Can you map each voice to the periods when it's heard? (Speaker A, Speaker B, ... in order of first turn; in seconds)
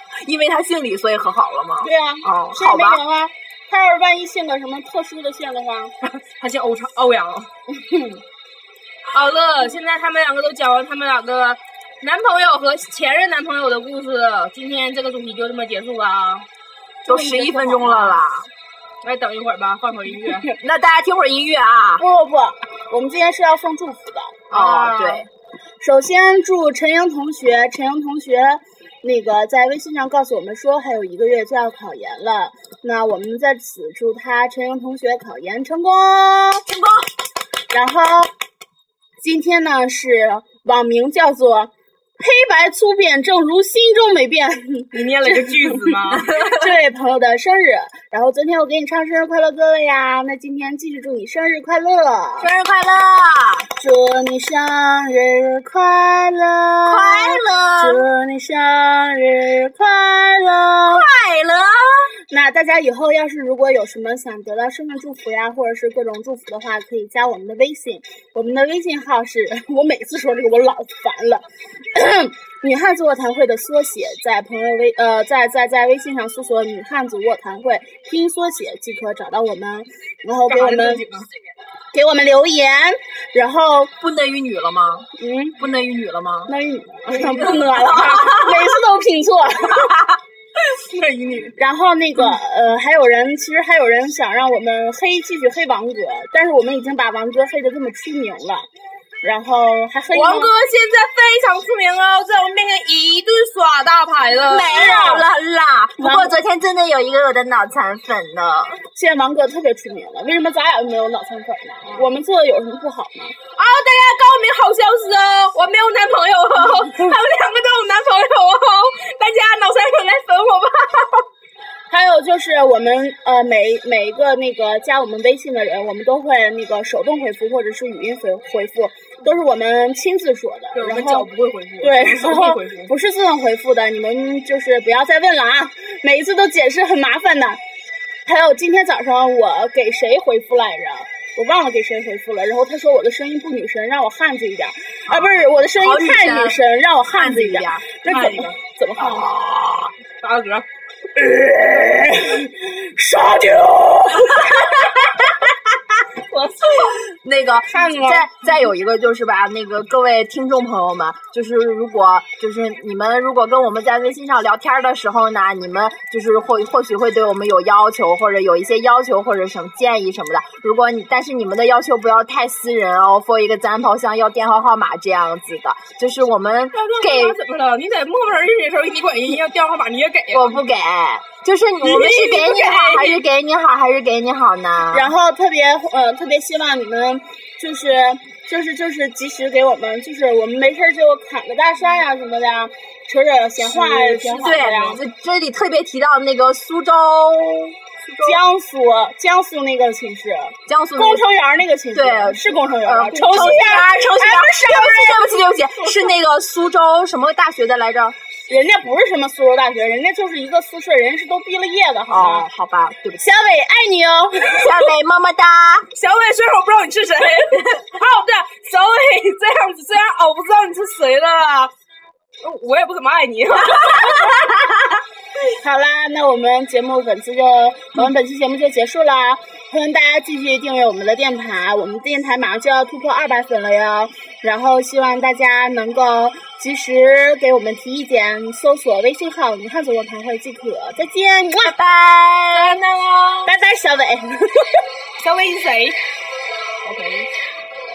Speaker A: 0.2-3.0, 17.1-18.5, 20.4-22.0, 24.5-25.3, 36.7-37.0, 46.1-46.7, 52.4-53.7, 56.8-58.0, 60.9-62.1, 84.0-86.5, 87.4-88.8, 89.7-90.2, 104.4-108.8, 145.1-146.6, 147.1-147.8, 149.0-149.9, 157.1-177.4, 180.3-185.1, 193.7-198.4, 200.7-201.2, 201.9-208.2, 212.1-213.3, 214.5-215.9, 223.6-224.9, 241.6-242.8
Speaker B: 1.8-5.9, 7.7-8.2, 17.1-18.1, 22.0-24.4, 25.8-36.6, 37.7-38.3, 39.2-52.5, 53.8-61.0, 62.3-81.0, 81.9-83.9, 85.2-85.6, 86.5-89.9, 91.6-98.7, 99.2-100.5, 104.7-105.2, 106.0-106.3, 108.9-113.3, 116.5-117.2, 121.9-131.3, 131.8-137.6, 138.2-149.3, 151.1-154.9, 157.7-158.3, 184.9-195.0, 198.2-205.3, 208.5-212.5, 213.2-214.7, 225.6-241.7, 243.4-244.7
Speaker C: 6.0-7.5, 9.1-16.4, 19.0-20.5, 24.5-25.3, 44.9-46.3, 80.5-81.3, 87.1-87.5, 90.7-91.5, 100.1-105.0, 113.6-121.2, 130.7-132.9, 148.1-148.6, 150.2-150.7, 156.3-157.0, 176.7-180.6, 181.8-183.2, 215.9-221.7, 222.4-224.4, 242.5-243.5, 245.2-246.0, 246.8-247.3